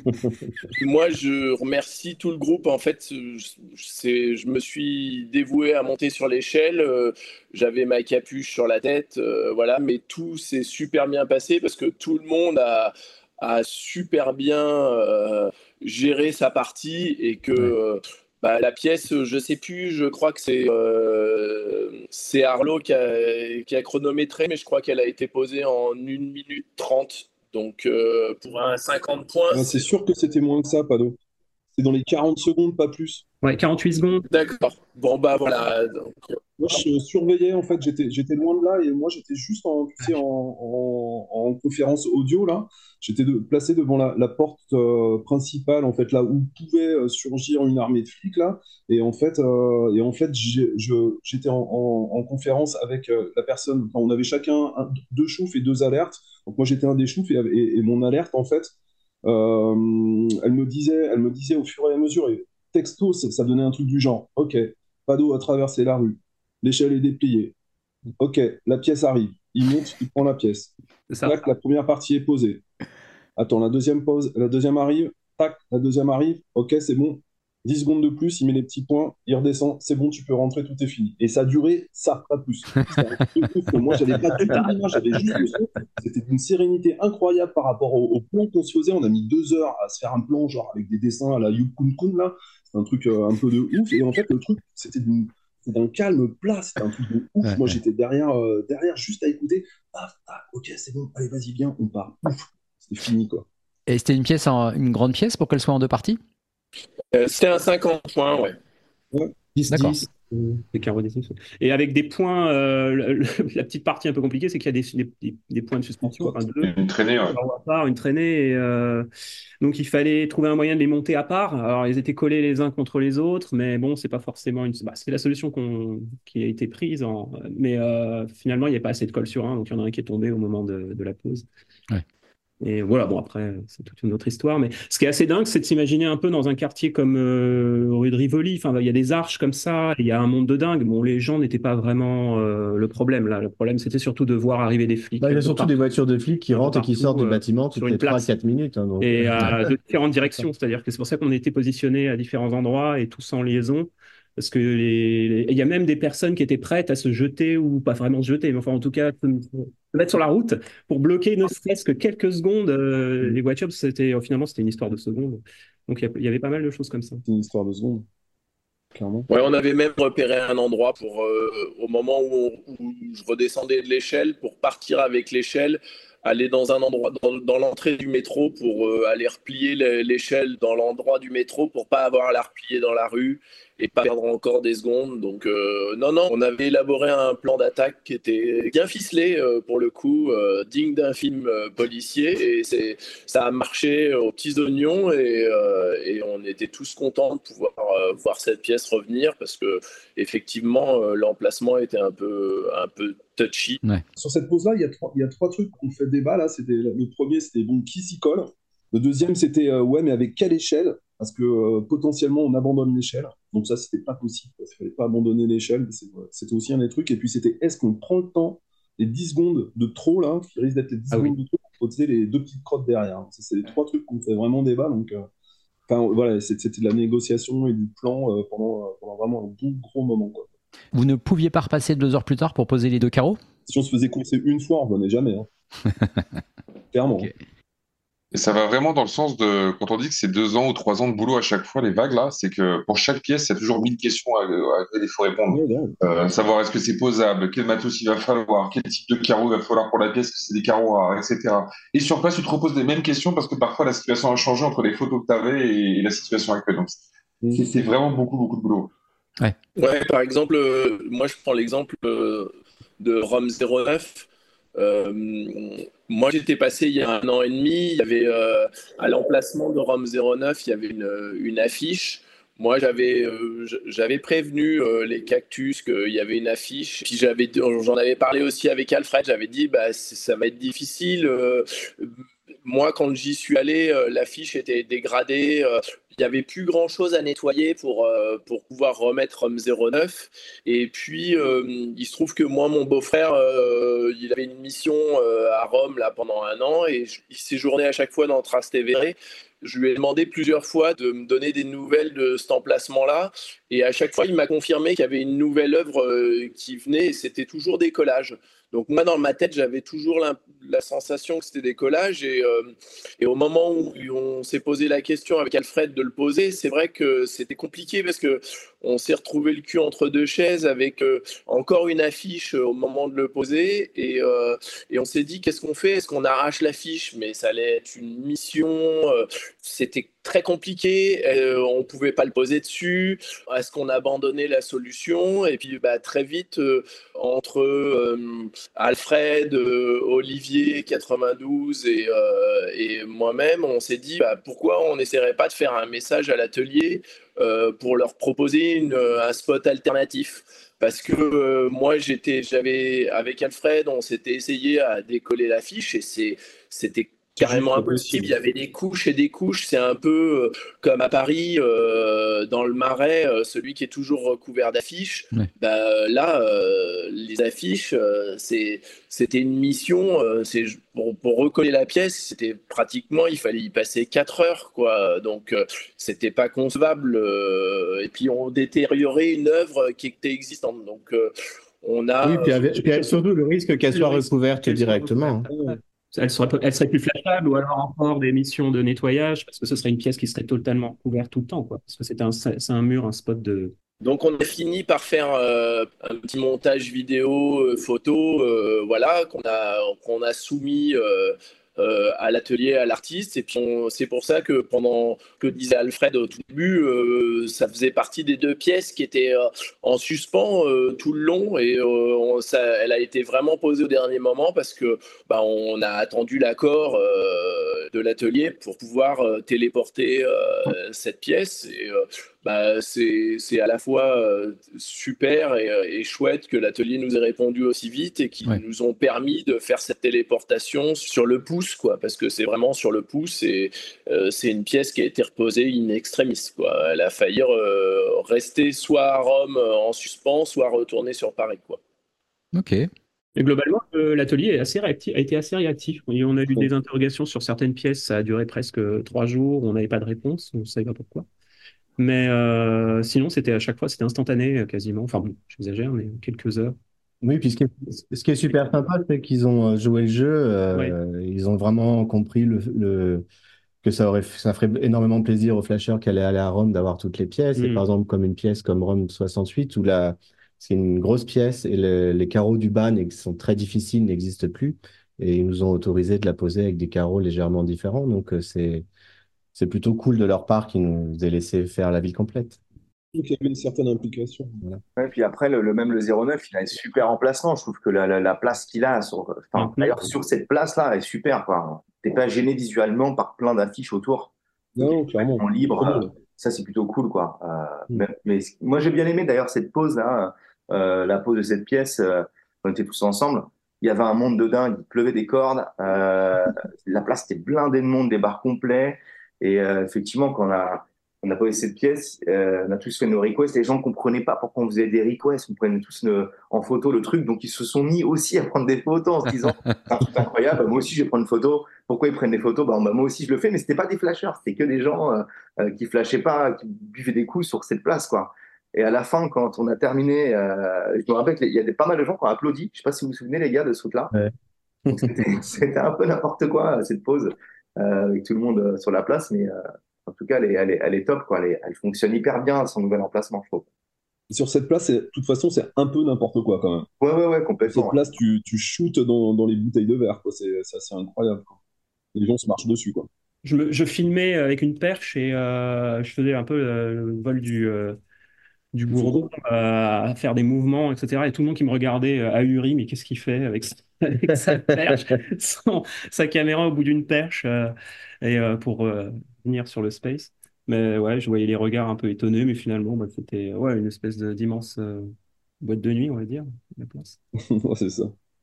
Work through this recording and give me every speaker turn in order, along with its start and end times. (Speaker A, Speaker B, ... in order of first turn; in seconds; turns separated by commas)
Speaker A: 0.8-29.9, Speaker B: 29.5-31.2, Speaker B: 31.8-33.2, Speaker C: 33.4-34.3, Speaker A: 34.3-36.4, Speaker B: 36.6-58.7, Speaker B: 59.2-67.5, Speaker B: 68.2-70.7, Speaker C: 71.1-71.5, Speaker B: 71.2-72.6, Speaker B: 73.4-103.5, Speaker C: 84.4-85.5, Speaker D: 97.4-97.8, Speaker D: 103.9-106.2, Speaker A: 107.1-108.6, Speaker B: 109.1-109.6, Speaker D: 109.7-110.1, Speaker C: 109.7-116.7, Speaker B: 116.0-116.4, Speaker E: 116.6-117.4, Speaker C: 117.3-119.1, Speaker C: 119.6-131.5, Speaker C: 132.6-145.8, Speaker F: 145.2-149.6, Speaker C: 146.5-148.2, Speaker C: 149.0-167.2, Speaker B: 167.2-168.1, Speaker B: 168.9-169.3, Speaker A: 169.3-203.8, Speaker B: 204.2-225.3, Speaker B: 225.9-230.5, Speaker D: 230.9-233.4, Speaker B: 233.7-235.5, Speaker D: 235.9-236.2, Speaker B: 236.9-237.3, Speaker E: 238.3-257.0, Speaker B: 245.5-246.0, Speaker B: 257.4-257.9, Speaker E: 257.5-258.9, Speaker A: 259.8-282.1, Speaker A: 282.7-381.3, Speaker B: 357.4-358.3, Speaker A: 381.8-383.1, Speaker F: 382.2-385.5, Speaker C: 383.9-393.7, Speaker A: 394.0-441.8, Speaker D: 442.5-442.9, Speaker C: 443.4-451.3, Speaker C: 452.0-456.8, Speaker F: 457.2-463.3, Speaker F: 463.8-478.9, Speaker C: 467.6-467.9, Speaker F: 479.5-482.6, Speaker B: 483.1-484.6, Speaker G: 485.0-534.1, Speaker C: 489.6-490.1, Speaker B: 494.8-496.1, Speaker F: 534.9-535.2, Speaker G: 534.9-543.7, Speaker B: 544.3-546.9, Speaker G: 547.0-548.0, Speaker B: 547.7-551.6, Speaker B: 552.1-553.1, Speaker C: 553.4-558.0, Speaker C: 558.7-577.2, Speaker B: 558.9-559.2, Speaker F: 564.5-565.1, Speaker B: 577.5-578.1